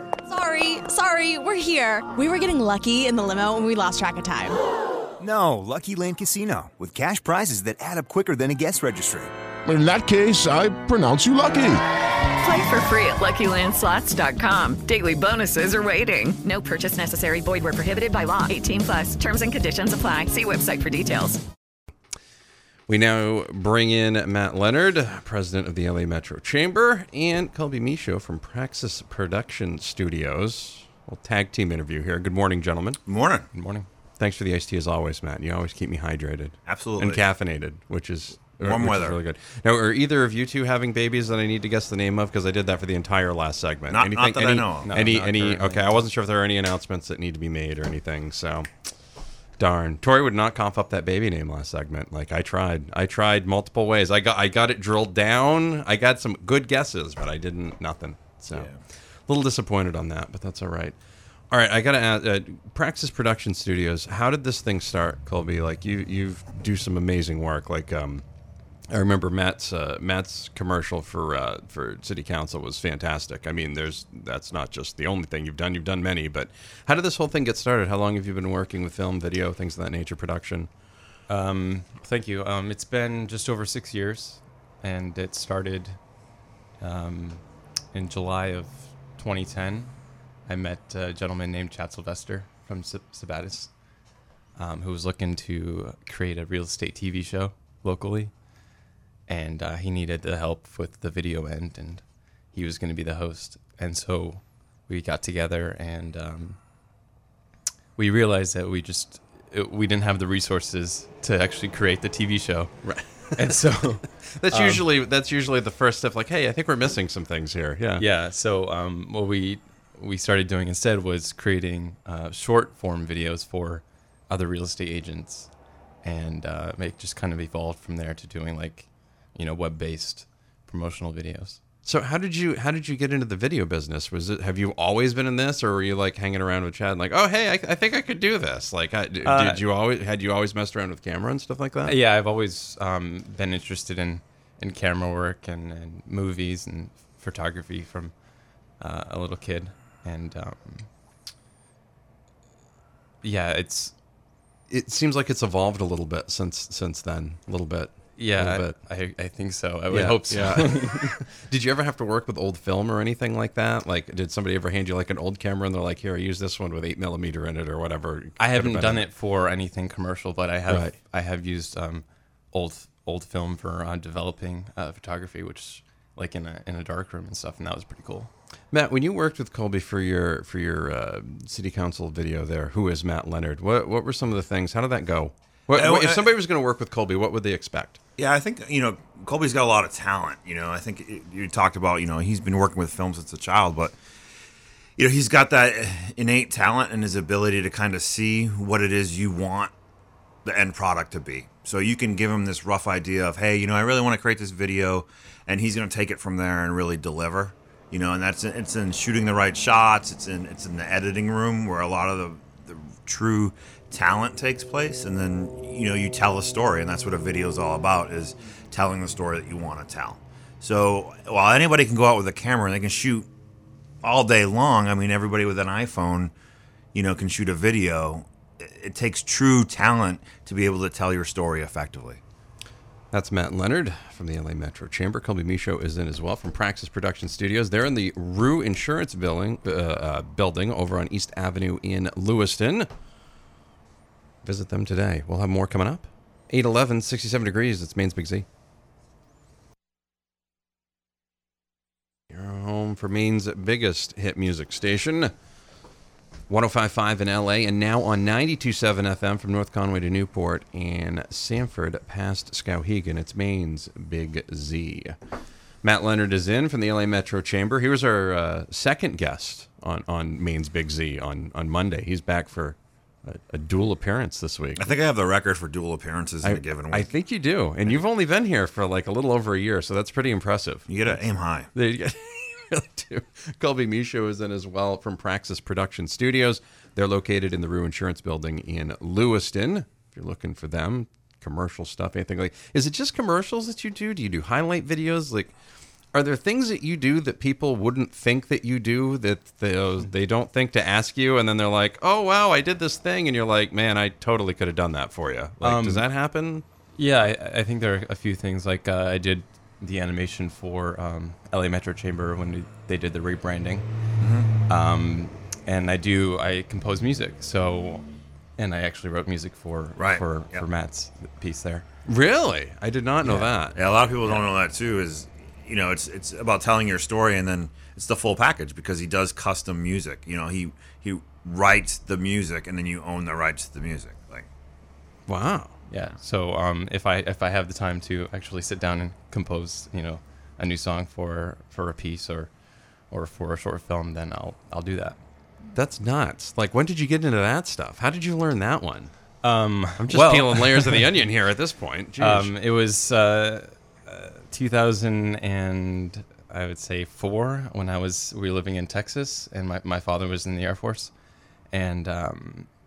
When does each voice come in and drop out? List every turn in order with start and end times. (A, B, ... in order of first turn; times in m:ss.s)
0:00.3-0:04.6 A
0:05.2-0:09.3 B
0:09.7-0:11.8 C
0:12.4-0:21.4 D
0:22.9-0:33.0 E
0:33.1-0:33.5 F
0:33.5-0:33.9 G
0:34.2-0:48.7 E
0:36.7-0:37.2 F
0:38.6-0:39.2 F
0:43.9-0:45.1 F
0:44.8-0:46.1 G
0:49.6-1:01.0 E
0:58.5-0:58.8 F
1:01.5-1:08.3 E
1:08.9-1:20.7 E
1:21.3-1:34.0 G
1:34.6-1:38.4 G
1:39.3-1:46.6 G
1:48.0-1:54.8 G
1:52.8-1:53.7 E
1:54.4-1:58.0 E
1:58.0-2:11.6 G
2:11.8-2:22.0 E
2:19.2-2:19.6 G
2:21.8-2:30.9 G
2:33.2-2:34.0 G
2:34.7-2:38.9 E
2:38.2-2:41.1 G
2:39.9-2:49.1 E
2:48.4-2:58.3 G
2:50.7-2:51.0 E
2:58.7-3:08.0 E
3:05.7-3:06.3 F
3:08.2-3:14.0 F
3:15.0-3:19.7 F
3:20.4-3:43.3 F
3:44.0-3:46.3 F
3:46.9-3:52.2 F
3:53.1-4:02.9 E
4:04.4-4:08.5 E
4:12.3-4:15.3 E
4:16.5-4:25.2 E
4:25.8-4:35.0 E
4:34.8-4:37.1 F
4:36.4-4:55.5 E
4:40.9-4:41.7 F
4:56.1-5:06.6 E
5:05.6-5:06.1 G
5:06.9-5:14.0 G
5:14.2-5:14.5 F
5:14.7-5:21.8 G
5:20.0-5:20.6 F
5:22.1-5:23.8 E
5:23.2-5:23.5 G
5:23.8-5:34.5 F
5:35.3-5:35.8 E
5:35.9-5:45.2 G
5:45.7-5:52.5 E
5:49.4-5:51.0 G
5:52.2-6:01.1 G
6:01.7-6:02.7 G